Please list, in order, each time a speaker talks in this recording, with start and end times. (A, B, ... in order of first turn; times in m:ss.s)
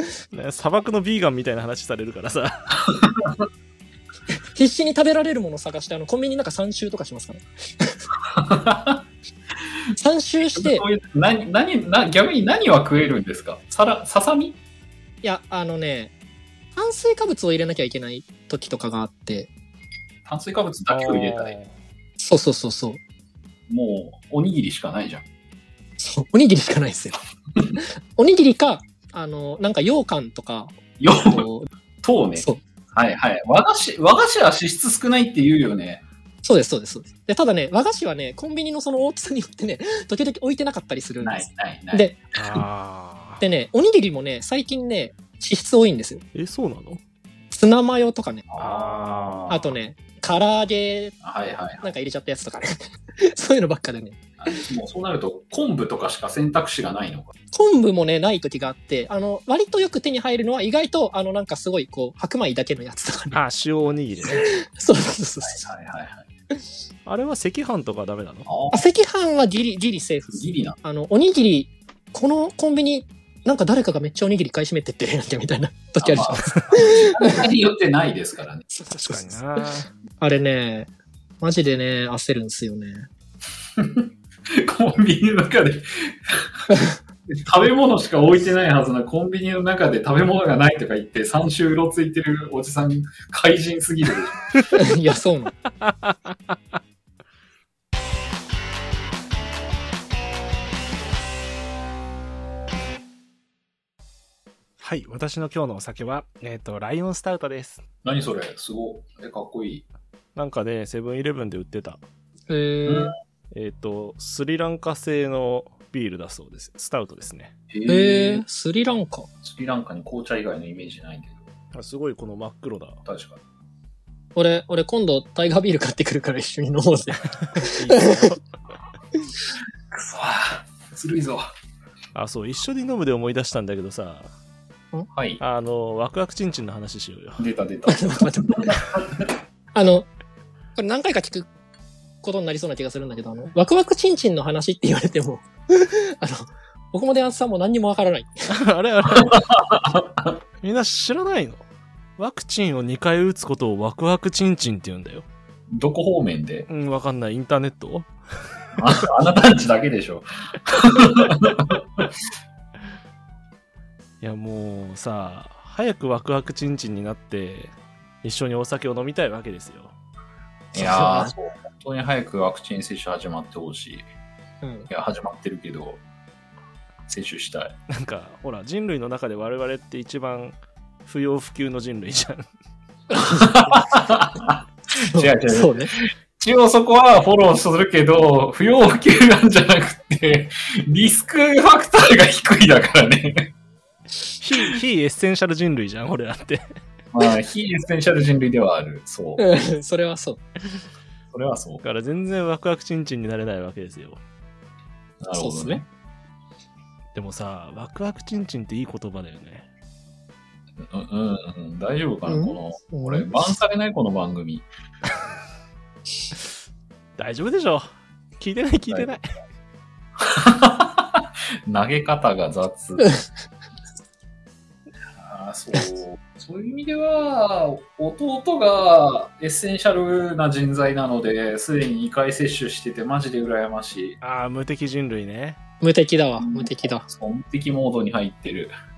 0:00.3-0:02.7 A
0:02.9-0:03.4 B
0:04.5-0:08.0 C
0:08.3-0:09.0 B
0:10.0-0:10.8 C
0:10.5-0:14.6 B
0:15.2-0:16.1 C
0:16.8-0:19.5 C
0:20.2-0:21.6 B
0:20.9-0:21.7 A
0:22.2-0:23.0 C
0:23.7-0:25.2 B
0:26.0-0:27.2 C
0:27.8-0:31.7 C
0:31.0-0:31.5 B
0:32.0-0:36.0 B
0:36.4-0:42.2 C
0:41.2-0:42.6 B
0:42.4-0:43.4 A
0:43.4-0:46.2 C
0:46.3-0:47.0 A
0:47.5-0:48.5 C
0:48.5-0:49.7 B
0:48.6-0:49.5 A
0:49.5-0:51.2 C
0:51.2-0:51.9 B
0:51.8-0:54.7 C
0:54.4-0:57.3 B
0:57.5-1:03.4 C
1:03.3-1:04.5 A
1:04.3-1:05.7 C
1:05.4-1:06.3 B
1:07.1-1:08.5 A
1:08.5-1:08.8 B
1:08.7-1:17.4 C
1:10.3-1:10.8 B
1:16.0-1:18.7 B
1:18.7-1:19.7 C
1:18.9-1:19.9 A
1:20.2-1:20.9 C
1:21.4-1:23.1 C
1:23.8-1:26.6 B
1:26.7-1:27.0 C
1:27.3-1:34.6 B
1:34.7-1:35.6 C
1:35.9-1:36.3 A
1:44.8-1:47.8 A
1:48.0-1:49.9 B
1:50.4-1:52.0 A
1:52.5-1:53.1 C
1:52.9-1:53.1 B
1:53.5-1:57.5 A
1:57.7-1:58.4 B
1:57.9-1:59.3 C
1:59.4-2:01.5 B
2:01.7-2:03.0 A
2:03.0-2:03.4 B
2:04.4-2:08.3 C
2:07.6-2:08.4 A
2:09.9-2:11.5 B
2:12.2-2:14.3 A
2:15.1-2:15.4 B
2:15.4-2:17.4 A
2:17.4-2:19.3 B
2:17.9-2:18.8 C
2:19.8-2:20.1 C
2:20.8-2:21.5 C
2:22.2-2:28.5 C
2:28.5-2:29.5 A
2:29.2-2:30.3 B
2:30.6-2:31.6 A
2:32.2-2:35.3 A
2:35.7-2:36.7 B
2:36.7-2:38.1 A
2:38.8-2:42.1 B
2:44.2-2:49.9 A
2:50.7-2:54.1 B
2:50.8-2:51.3 C
2:54.6-2:54.9 C
2:54.9-2:56.0 B
2:57.1-2:57.8 B
2:57.9-3:02.5 A
3:03.1-3:03.7 C
3:03.2-3:13.5 B
3:05.0-3:06.0 C
3:14.4-3:16.6 A
3:17.1-3:19.4 B
3:19.4-3:20.4 C
3:21.3-3:21.8 B
3:21.8-3:24.2 A
3:25.2-3:25.9 B
3:25.3-3:25.8 C
3:27.2-3:29.7 A
3:30.8-3:34.7 B
3:32.3-3:33.3 C
3:37.2-3:37.9 A
3:38.4-3:39.3 A
3:40.2-3:43.1 B
3:45.2-3:54.2 B
3:54.2-3:55.6 A
3:55.8-3:57.1 C
3:56.4-3:58.7 B